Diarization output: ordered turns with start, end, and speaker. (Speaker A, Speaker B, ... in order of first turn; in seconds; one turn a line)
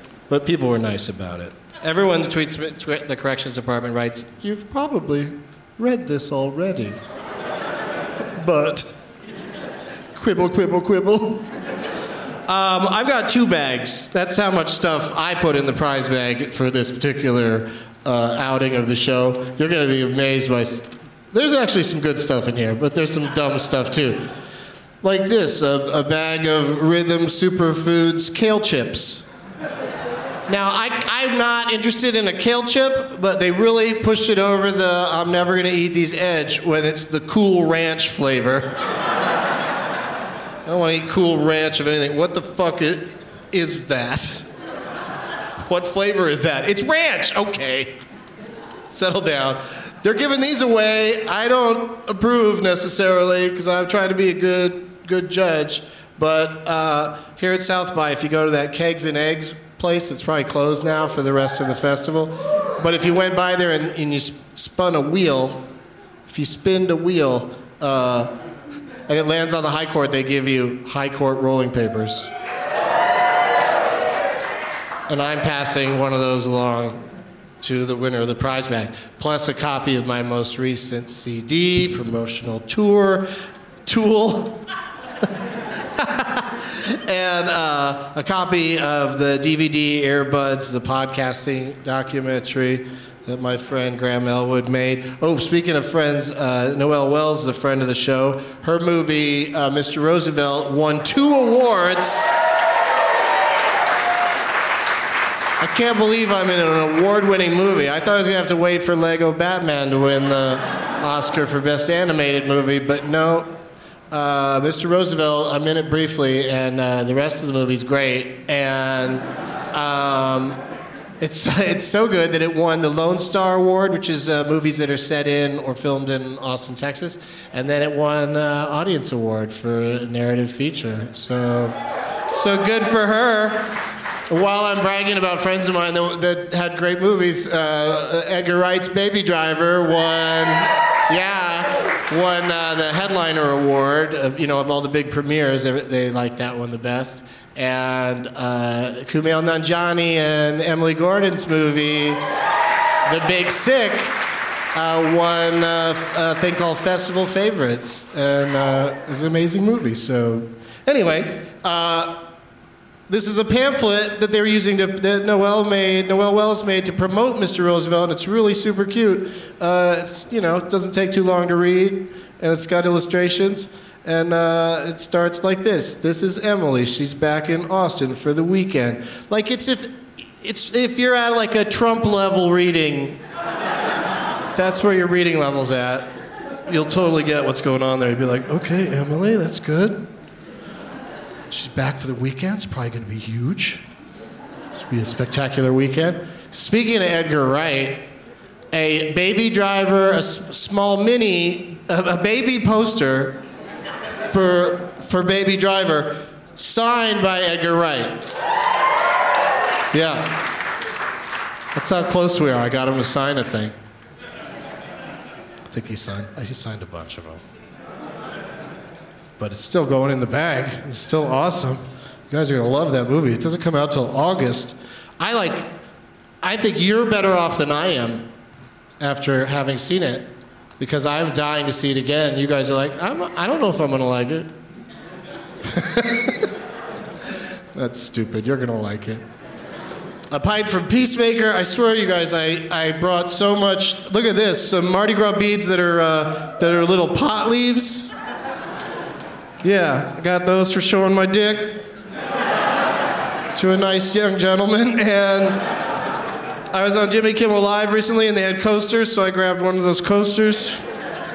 Speaker A: 0.3-7.0
Speaker A: 8.3-8.9
Speaker A: 10.2-11.5
Speaker A: 12.5-24.3
Speaker A: 25.0-29.2
Speaker A: 30.5-38.8
Speaker A: 40.7-44.5
Speaker A: 45.6-48.0
Speaker A: 48.9-65.6
Speaker A: 66.3-68.3
Speaker A: 69.1-72.3
Speaker A: 75.1-77.0
Speaker A: 77.6-83.3
Speaker A: 83.9-84.6
Speaker A: 86.0-102.3
Speaker A: 105.6-113.5
Speaker A: 114.1-120.6
Speaker A: 121.2-131.8
Speaker A: 132.3-133.7
Speaker A: 134.3-152.2
Speaker A: 153.1-154.2
Speaker A: 154.7-162.2
Speaker A: 163.1-183.2
Speaker A: 184.5-186.1
Speaker A: 186.7-190.1
Speaker A: 191.5-193.8
Speaker A: 194.9-198.1
Speaker A: 198.7-203.4
Speaker A: 204.3-208.3
Speaker A: 209.9-210.4
Speaker A: 211.8-213.8
Speaker A: 215.7-217.4
Speaker A: 219.4-225.7
Speaker A: 226.4-228.3
Speaker A: 229.0-234.5
Speaker A: 235.7-236.5
Speaker A: 237.8-239.2
Speaker A: 240.3-248.1
Speaker A: 249.6-251.8
Speaker A: 253.5-255.6
Speaker A: 256.7-260.8